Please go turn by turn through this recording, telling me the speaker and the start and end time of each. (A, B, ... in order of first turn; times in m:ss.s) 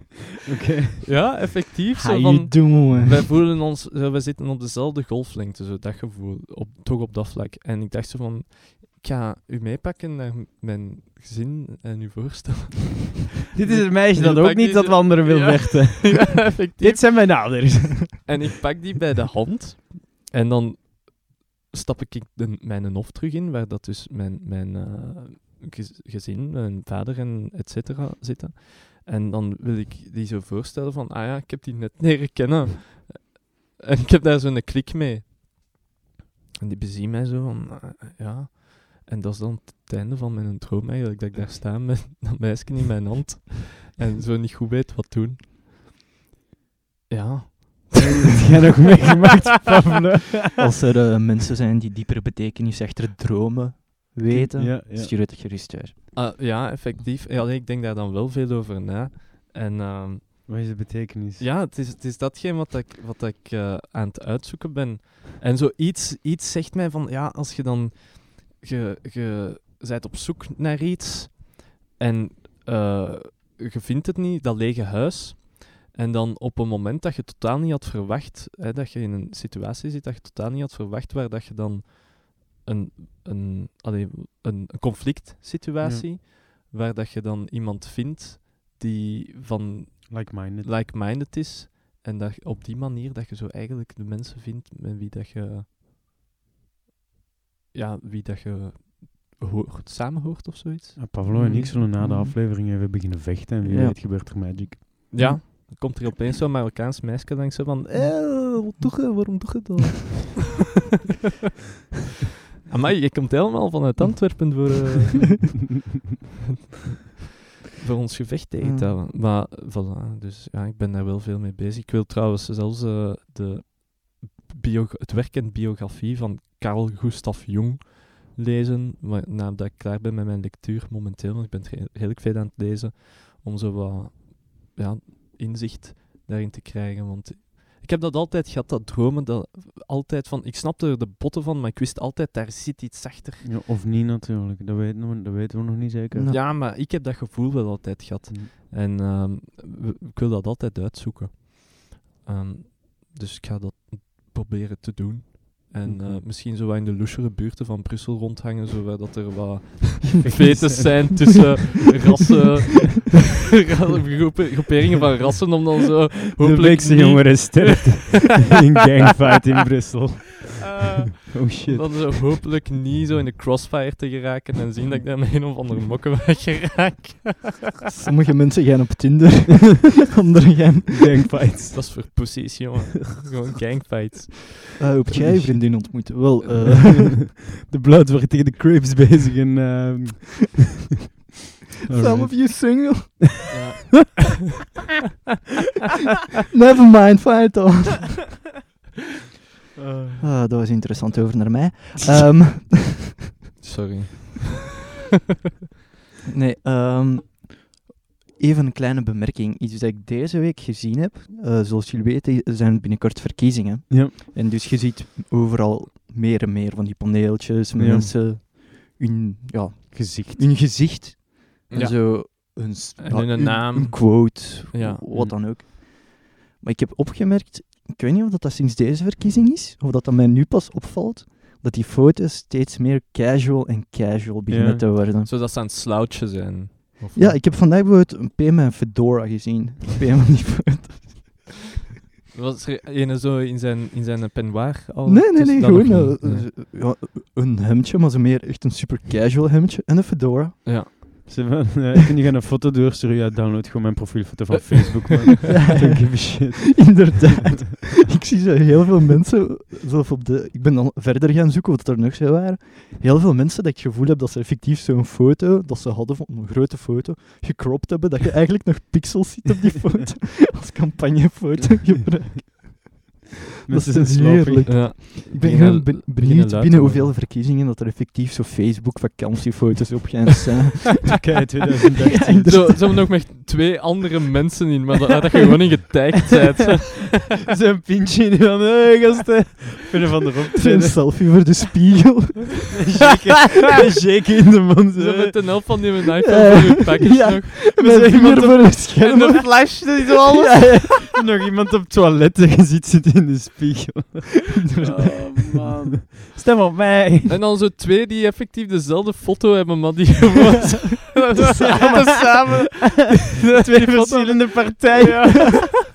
0:00.5-0:01.0 A
0:01.0-0:17.7 B
0:01.9-0:03.2 C
0:13.5-0:18.2 A
0:18.2-0:35.3 B
0:36.6-0:45.4 B
0:47.1-0:48.4 B
0:48.2-0:50.6 A
0:50.6-0:56.0 C
0:54.3-0:55.1 A
0:56.1-1:00.6 B
1:00.5-1:01.4 A
1:01.4-1:35.7 B
1:30.1-1:30.7 A
1:37.7-1:41.7 B
1:41.0-1:45.1 A
1:41.3-1:42.4 C
1:43.6-1:44.5 C
1:45.1-1:50.5 B
1:45.2-1:45.6 C
1:52.7-1:55.5 B
1:57.8-2:23.5 B
1:58.6-1:58.9 C
2:23.4-2:26.3 A
2:26.1-2:26.4 C
2:26.3-2:48.1 B
2:35.8-2:36.2 A
2:40.2-2:41.1 A
2:46.4-2:52.0 A
2:51.6-2:57.6 B
2:57.9-3:01.1 C
3:01.0-3:02.4 A
3:01.7-3:04.6 B
3:04.8-3:07.2 C
3:06.8-3:07.0 A
3:07.6-3:10.6 A
3:11.8-3:13.1 A
3:11.9-3:13.5 C
3:13.5-3:14.3 B
3:16.5-3:18.4 C
3:19.8-3:20.2 A
3:20.2-3:22.8 C
3:23.6-3:24.6 B
3:26.3-3:55.3 C
3:37.8-3:38.1 A
3:39.9-3:40.4 A
3:41.7-3:45.3 B
3:54.5-3:54.8 A
3:55.2-3:57.4 B
3:57.1-4:01.5 C
4:02.3-4:06.4 B
4:05.0-4:11.3 C
4:10.6-4:10.9 B
4:11.3-4:17.2 A
4:15.5-4:33.1 C
4:33.7-4:34.8 A
4:33.7-4:41.2 C
4:34.7-4:37.1 B
4:41.1-4:43.0 A
4:42.0-4:43.3 C
4:42.4-4:47.2 B
4:47.5-4:51.2 A
4:50.6-4:52.8 C
4:52.7-4:55.7 A
4:54.9-4:57.7 B
4:56.2-5:00.9 C
4:57.7-4:58.8 A
4:59.0-5:00.9 B
5:01.1-5:07.3 A
5:04.6-5:05.4 C
5:07.2-5:15.7 B
5:11.4-5:12.4 C
5:13.3-5:15.8 A